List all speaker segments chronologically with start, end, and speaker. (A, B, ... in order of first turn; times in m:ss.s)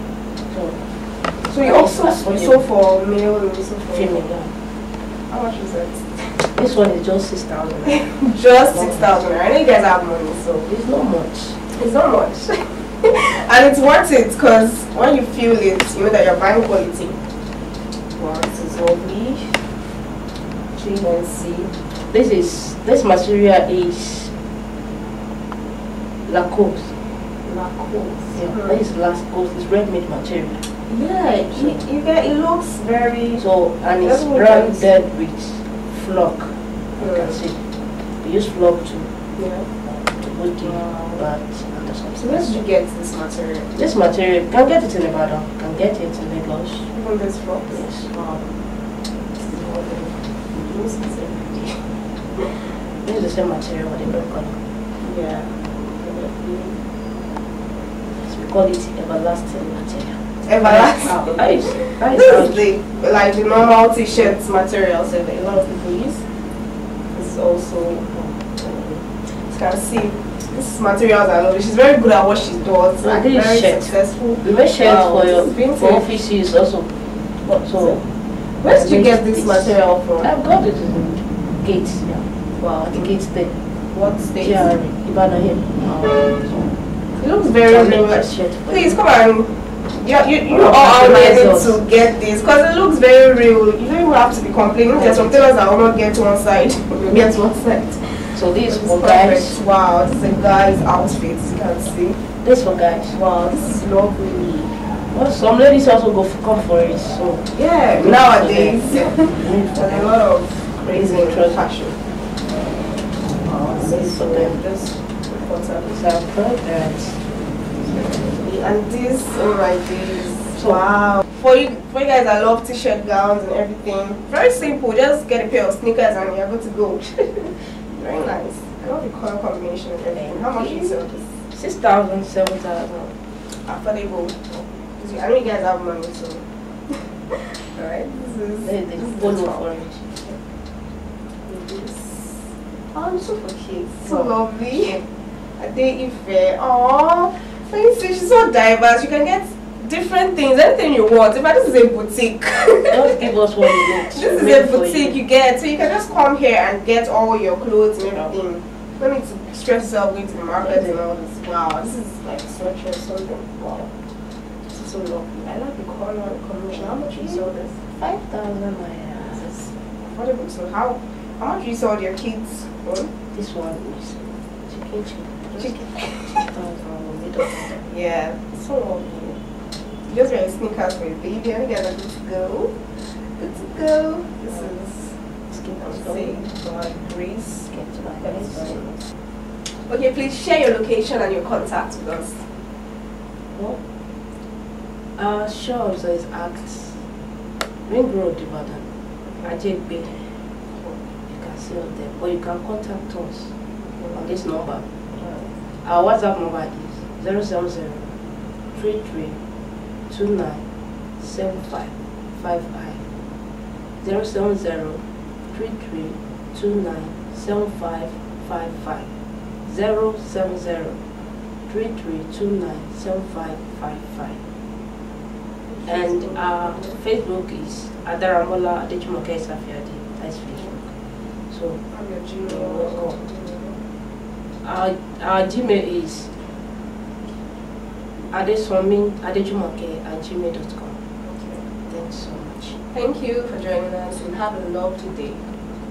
0:00.4-0:00.9 A
0:01.4-0:04.3 B
0:01.6-0:02.6 A
0:03.9-0:04.5 A
0:05.3-0:06.5 B
0:06.4-0:08.1 A
0:07.9-0:10.7 B
0:08.7-0:09.2 A
0:10.6-0:11.6 A
0:11.7-0:17.2 B
0:18.1-0:19.6 B
0:20.7-0:21.7 B
0:21.9-0:24.3 A
0:26.3-0:26.9 A
0:27.4-0:28.8 B
0:28.3-0:30.7 A
0:30.9-0:34.9 B
0:31.5-0:31.8 A
0:33.4-0:39.1 A
0:39.4-0:39.7 B
0:39.8-0:42.6 A
0:40.6-0:41.2 B
0:42.2-0:43.7 B
0:43.7-0:46.9 A
0:46.9-0:48.4 B
0:47.7-0:48.1 A
0:49.4-0:52.5 B
0:53.0-0:54.6 A
0:55.0-0:56.8 B
0:58.1-1:02.6 A
1:00.4-1:06.3 B
1:07.1-1:16.2 B
1:13.0-1:18.0 A
1:17.8-1:20.3 B
1:18.7-1:23.6 A
1:23.9-1:24.7 B
1:24.4-1:26.8 A
1:27.2-1:42.2 B
1:27.6-1:29.0 A
1:30.5-1:31.8 A
1:34.9-1:35.5 A
1:38.3-1:39.6 A
1:42.4-1:43.2 A
1:43.1-1:44.8 B
1:45.1-1:50.2 A
1:47.5-1:52.0 B
1:50.8-1:51.7 A
1:53.4-1:56.0 B
1:53.6-1:54.9 A
1:55.8-1:57.2 A
1:57.8-2:11.3 B
2:00.5-2:00.8 A
2:10.1-2:13.2 A
2:13.5-2:19.7 B
2:18.6-2:20.2 A
2:21.5-2:25.0 B
2:24.1-2:24.3 A
2:25.6-2:44.0 B
2:32.9-2:35.2 A
2:40.6-2:41.0 A
2:44.6-2:47.8 B
2:46.7-2:49.7 A
2:49.8-2:53.1 B
2:53.3-2:57.9 A
2:55.6-2:56.5 B
2:57.6-2:59.4 B
3:00.0-3:09.0 B
3:05.5-3:06.5 A
3:07.7-3:09.0 A
3:09.7-3:12.5 B
3:13.5-3:13.8 A
3:15.2-3:17.0 A
3:17.9-3:18.9 A
3:19.4-3:20.4 A
3:21.3-3:23.5 A
3:23.9-3:24.2 B
3:24.1-3:25.2 A
3:25.2-3:25.5 B
3:25.7-3:28.2 A
3:28.7-3:29.4 A
3:30.1-3:30.6 A
3:31.2-3:33.0 A
3:34.0-3:39.1 A
3:39.7-3:41.0 A
3:41.7-3:44.4 A
3:45.7-3:47.0 B
3:45.9-3:50.9 A
3:51.5-3:51.8 A
3:51.9-3:53.8 B
3:52.4-3:53.2 A
3:54.6-3:56.4 A
3:58.3-4:01.0 A
4:01.2-4:01.7 B
4:01.9-4:02.8 A
4:02.9-4:05.5 B